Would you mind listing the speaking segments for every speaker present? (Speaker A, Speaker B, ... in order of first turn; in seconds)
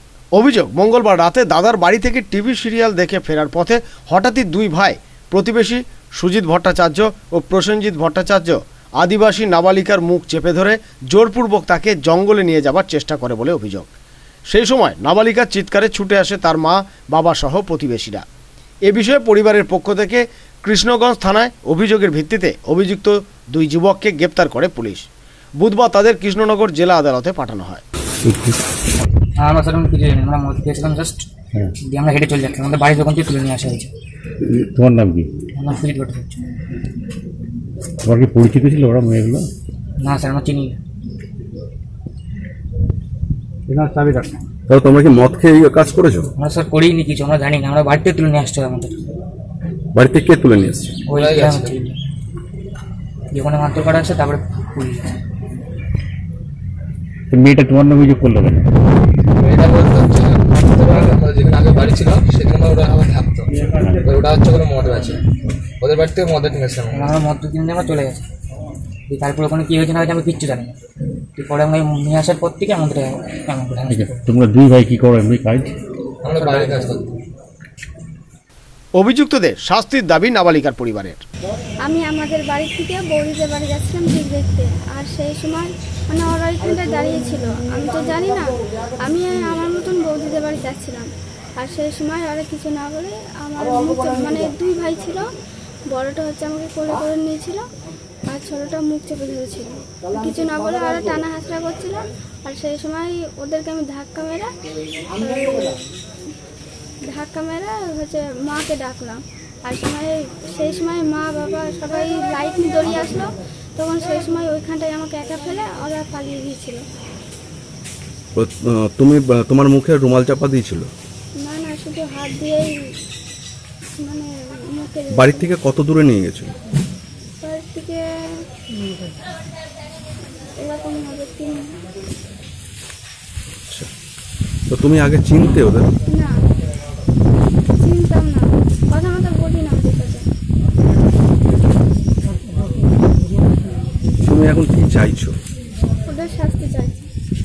Speaker A: 0.3-13.9, 14.5-18.2, 18.8-27.8, 78.9-81.2
Speaker B: 28.2-28.6, 34.4-35.3, 38.0-39.5, 57.3-58.7, 63.7-64.0, 73.9-75.7
Speaker C: 29.4-31.3, 31.8-33.9, 35.5-36.4, 40.0-40.8, 43.7-44.4, 46.4-49.0, 51.1-52.0, 53.3-55.2, 66.9-68.2, 69.1-70.8, 71.3-74.2, 76.4-76.9
Speaker D: 44.7-46.3, 49.9-51.0, 118.3-120.9, 125.1-126.5, 134.7-135.9, 144.2-145.4
Speaker E: 51.1-51.8, 59.4-65.2, 65.8-67.1, 76.2-77.1
Speaker F: 81.8-95.3, 95.9-97.7, 98.3-104.5, 105.1-105.8, 107.1-116.8, 121.4-123.0, 124.0-125.5, 127.4-128.4, 130.6-131.8, 136.1-136.3, 137.7-140.3, 146.0-147.1